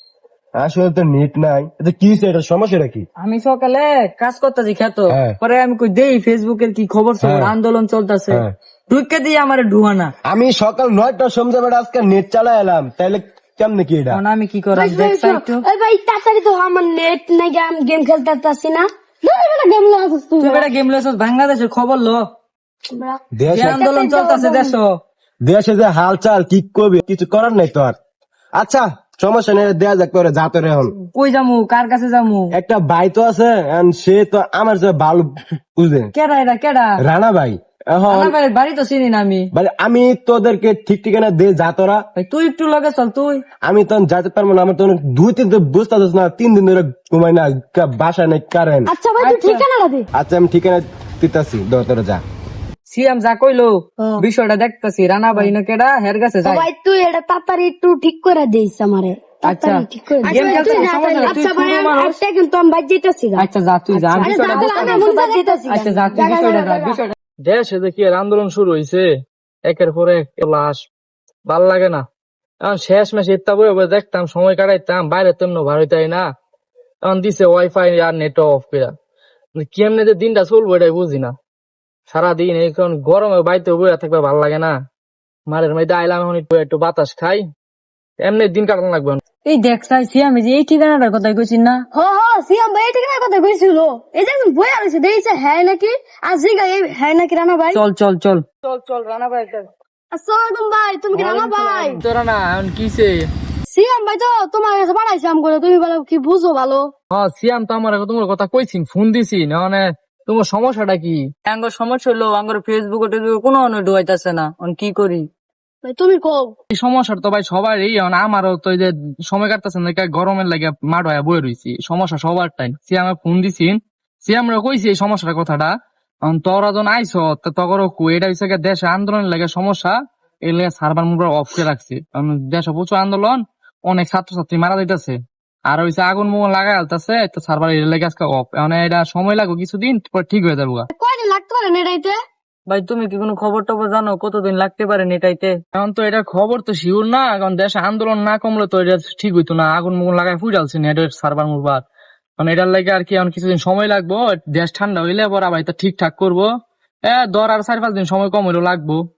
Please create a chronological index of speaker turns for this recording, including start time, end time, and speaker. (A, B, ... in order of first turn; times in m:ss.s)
0:00.6-0:03.0 A
0:03.2-0:10.1 B
0:05.1-0:05.4 A
0:07.2-0:07.5 A
0:10.2-0:14.2 A
0:14.1-0:15.6 B
0:14.7-0:18.9 C
0:19.2-0:20.7 D
0:20.4-0:22.2 B
0:22.9-0:23.2 C
0:23.4-0:23.9 A
0:23.5-0:24.9 B
0:23.8-0:24.7 C
0:25.4-0:27.9 A
0:28.6-0:30.9 A
0:31.1-0:32.5 B
0:32.5-0:36.1 A
0:36.1-0:37.0 B
0:37.0-0:38.4 A
0:38.1-0:39.5 B
0:39.5-0:42.0 A
0:42.2-0:43.4 B
0:43.6-0:48.9 A
0:48.9-0:50.1 D
0:49.2-0:49.6 B
0:50.2-0:52.2 A
0:52.8-0:56.6 B
0:54.0-0:54.2 D
0:56.4-1:07.0 C
0:59.4-1:02.2 B
1:00.2-1:01.4 D
1:03.4-1:05.2 B
1:04.2-1:05.7 D
1:05.7-1:07.1 B
1:07.4-1:09.1 E
1:09.6-1:10.8 E
1:11.5-1:12.0 E
1:12.6-1:16.3 E
1:17.0-1:18.9 E
1:19.6-1:21.3 E
1:22.1-1:24.8 E
1:25.5-1:27.4 E
1:28.2-1:29.2 E
1:29.4-1:31.8 B
1:31.9-1:37.8 D
1:37.7-1:38.4 B
1:38.6-1:39.6 E
1:40.1-1:42.0 D
1:41.1-1:43.3 E
1:43.7-1:46.9 D
1:47.1-1:51.2 E
1:51.5-1:55.3 B
1:55.8-1:56.5 D
1:56.7-2:05.7 E
2:06.3-2:20.9 E
2:20.9-2:22.2 D
2:22.7-2:25.6 B
2:25.7-2:31.8 E
2:32.4-2:36.5 E
2:37.0-2:39.0 E